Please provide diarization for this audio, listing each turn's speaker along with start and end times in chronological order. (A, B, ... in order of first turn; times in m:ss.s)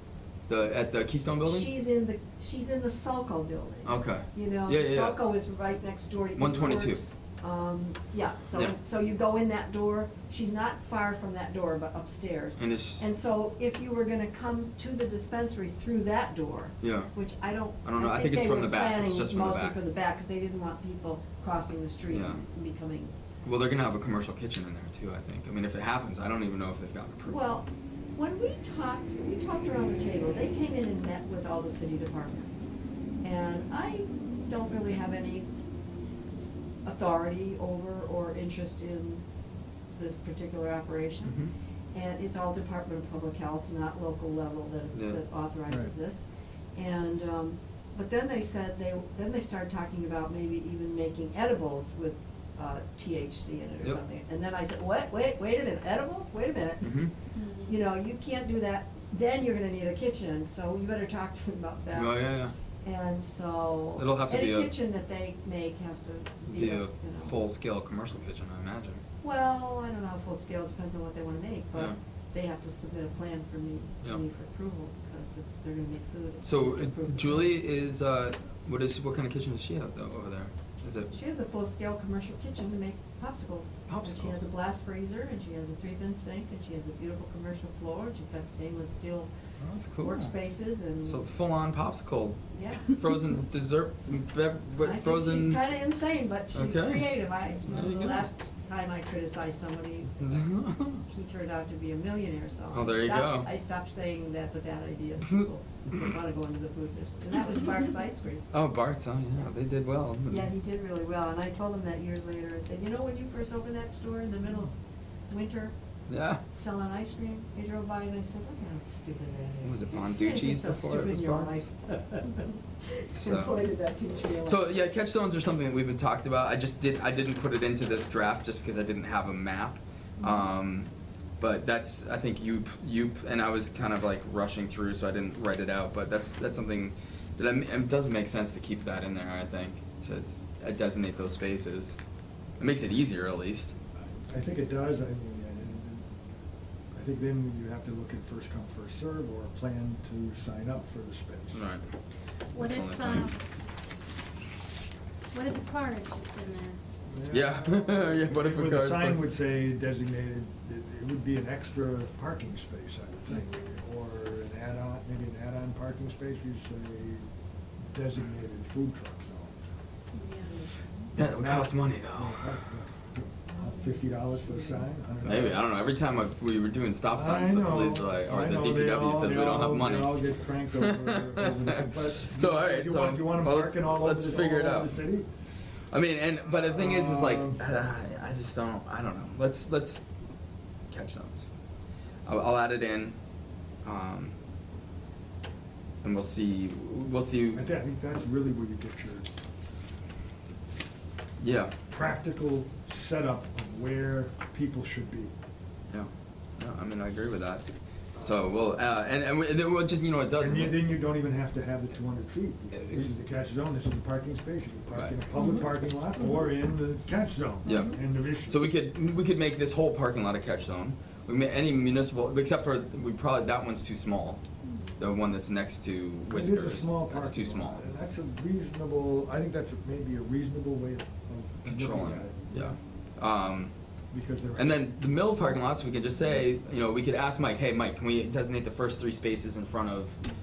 0:00.5-0:01.7 A
0:01.4-0:23.1 B
0:03.8-0:05.2 A
0:06.4-0:07.0 A
0:12.6-0:13.0 A
0:16.8-0:17.1 A
0:17.8-0:19.8 A
0:22.1-0:22.4 A
0:23.4-0:27.4 A
0:27.3-0:32.7 B
0:33.2-0:35.5 B
0:36.8-0:39.2 B
0:40.0-0:41.4 B
0:41.2-0:41.5 A
0:41.9-0:57.0 B
0:56.8-0:57.1 A
0:57.3-0:57.8 C
0:57.6-1:02.2 B
1:01.9-1:02.5 A
1:02.8-1:07.4 B
1:04.0-1:04.7 A
1:06.5-1:09.0 A
1:09.2-1:17.5 B
1:16.4-1:21.1 A
1:21.1-1:29.3 B
1:23.9-1:24.4 A
1:29.6-1:30.3 A
1:30.0-1:31.2 B
1:31.0-1:35.6 A
1:32.5-1:32.9 B
1:34.8-1:40.4 B
1:36.5-1:37.1 A
1:37.7-1:38.3 A
1:40.2-1:41.0 A
1:41.0-1:48.4 B
1:42.7-1:43.5 A
1:48.5-1:50.5 A
1:50.3-1:54.7 B
1:55.3-1:55.7 B
1:56.1-1:56.4 A
1:56.5-2:04.6 B
1:59.6-2:01.6 A
2:03.1-2:03.5 A
2:04.4-2:10.9 A
2:11.4-2:22.0 A
2:22.6-2:23.7 A
2:24.2-2:26.1 D
2:26.9-2:31.7 D
2:31.5-2:31.8 A
2:32.5-2:33.4 C
2:32.5-2:33.3 A
2:35.3-2:36.8 C
2:37.1-2:47.3 D
2:37.3-2:39.2 A
2:43.3-2:43.6 C
2:47.9-2:49.6 D
2:50.1-2:50.5 C
2:51.2-2:52.5 A
2:51.2-2:55.6 D
2:55.2-3:04.9 A
2:57.1-3:05.3 D
3:05.9-3:10.0 A
3:06.6-3:07.6 D
3:10.9-3:11.5 A
3:12.2-3:13.2 A
3:13.8-3:14.3 A
3:16.0-3:17.7 A
3:17.5-3:19.3 D
3:21.4-3:21.7 A
3:21.9-3:25.3 D
3:25.9-3:27.7 A
3:28.2-3:30.9 A
3:30.4-3:38.7 D
3:32.7-3:33.1 A
3:37.6-3:44.4 A
3:44.6-3:44.9 C
3:45.0-3:47.8 A
3:46.3-3:52.8 D
3:51.6-3:53.7 A
3:54.1-3:54.9 D
3:54.6-4:00.2 A